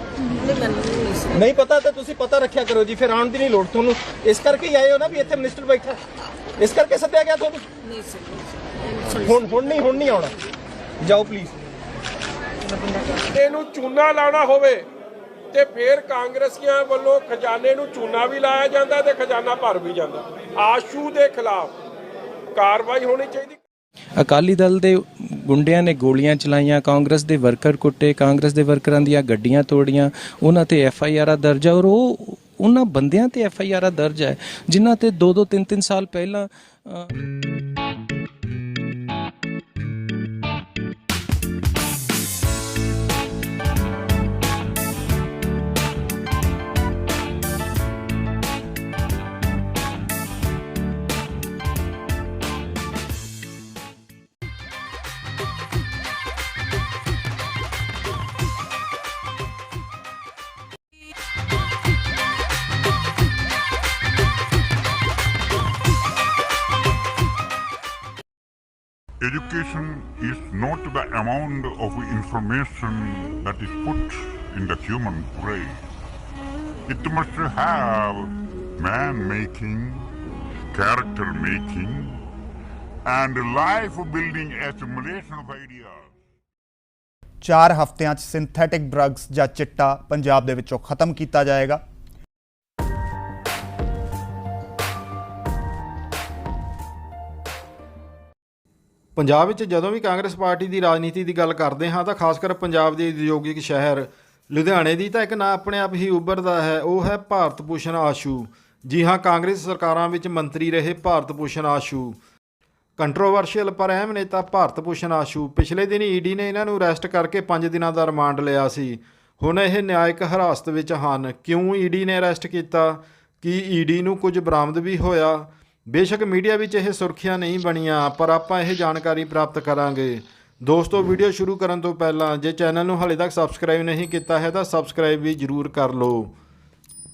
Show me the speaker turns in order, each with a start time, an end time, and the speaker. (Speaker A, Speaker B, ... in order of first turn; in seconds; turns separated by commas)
Speaker A: 1.3-6.0, Speaker A: 6.6-7.7, Speaker A: 9.1-10.3, Speaker A: 11.0-11.5, Speaker B: 13.3-14.9, Speaker B: 15.5-21.7, Speaker B: 22.6-23.6, Speaker C: 24.2-37.1, Speaker D: 69.2-75.8, Speaker D: 76.9-80.1, Speaker D: 80.7-82.2, Speaker D: 83.0-86.0, Speaker E: 87.4-91.8, Speaker F: 99.2-112.2, Speaker F: 113.0-136.3